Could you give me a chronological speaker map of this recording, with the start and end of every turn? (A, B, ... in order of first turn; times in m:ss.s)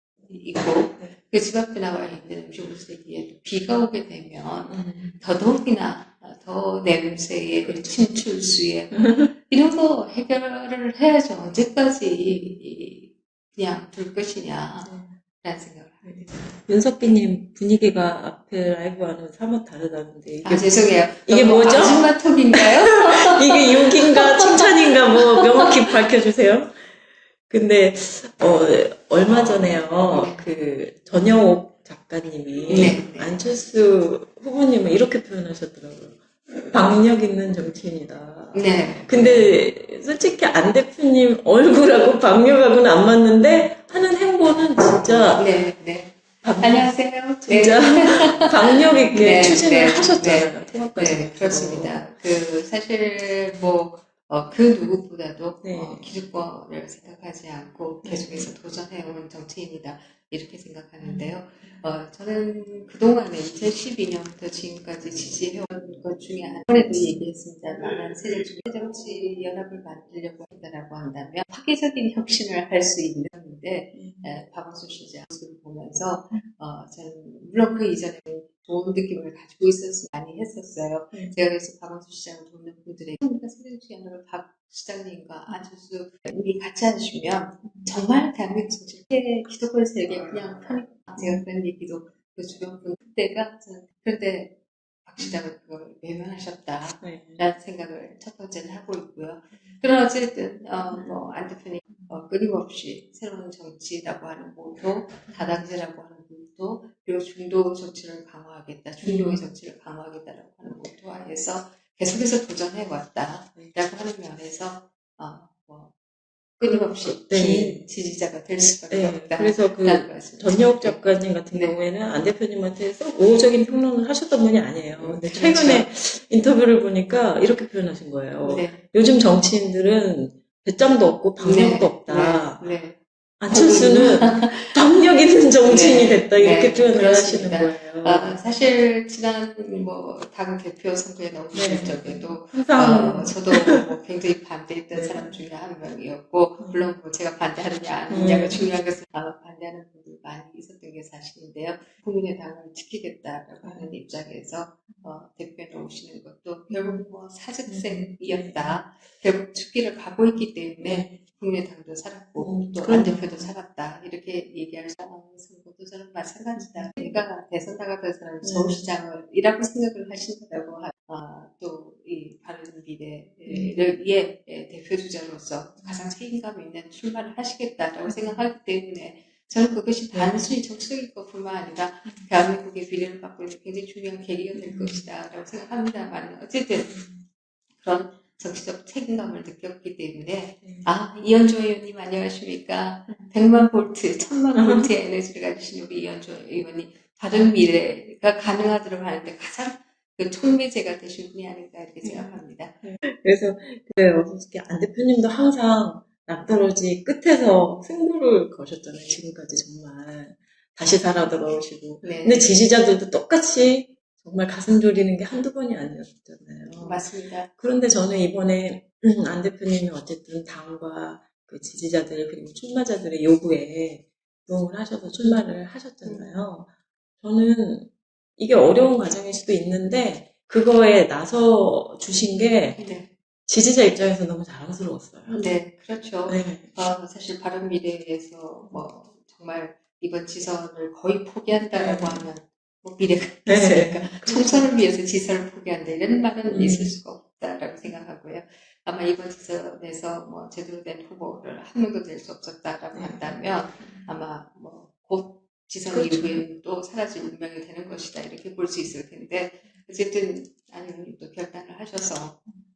0:00.3-0:16.4 A
0:04.7-0:05.2 B
0:07.6-0:08.2 B
0:08.9-0:09.3 B
0:12.3-0:12.6 B
0:14.8-0:15.2 B
0:16.0-0:26.9 B
0:20.4-0:26.0 A
0:27.5-0:45.5 B
0:30.1-0:30.5 A
0:32.7-0:33.4 A
0:38.5-0:39.5 A
0:44.9-1:55.9 A
0:46.4-0:52.0 B
0:53.5-0:53.8 B
0:55.6-0:56.1 B
0:58.0-0:58.5 B
1:01.0-1:01.8 B
1:13.9-1:14.4 B
1:27.6-1:28.0 B
1:31.2-1:31.4 B
1:37.0-1:37.4 B
1:40.9-1:41.2 B
1:41.9-1:42.2 B
1:45.3-1:45.6 B
1:49.0-1:49.4 B
1:56.6-2:01.8 A
1:56.6-1:57.9 B
1:58.9-2:12.7 B
2:05.0-2:05.9 A
2:08.4-2:08.8 A
2:11.4-2:13.0 A
2:13.4-2:18.3 B
2:13.5-2:14.8 A
2:15.6-3:07.0 A
2:21.5-2:23.8 B
2:24.9-2:25.4 B
2:26.6-2:26.9 B
2:28.1-2:28.7 B
2:33.6-2:33.9 B
2:36.7-2:37.0 B
2:37.7-2:38.8 B
2:40.8-2:41.2 B
2:42.4-2:43.5 B
2:46.5-2:47.2 B
2:48.4-2:48.9 B
2:53.5-2:53.8 B
2:55.8-2:56.1 B
2:58.1-2:58.4 B
3:00.1-3:00.5 B
3:04.5-3:05.1 B
3:06.8-3:07.2 B
3:07.8-3:22.8 A
3:10.6-3:10.9 B
3:14.5-3:14.9 B
3:22.0-3:46.7 B
3:32.0-3:32.5 A
3:36.8-3:37.5 A
3:46.0-3:46.4 A
3:47.2-3:52.8 B
3:52.8-3:53.1 A
3:53.5-3:55.5 B
3:55.3-4:22.4 A
3:56.3-3:56.7 B
3:58.6-3:58.9 B
4:01.7-4:02.2 B
4:03.4-4:04.7 B
4:06.4-4:07.0 B
4:12.9-4:14.1 B
4:15.9-4:16.4 B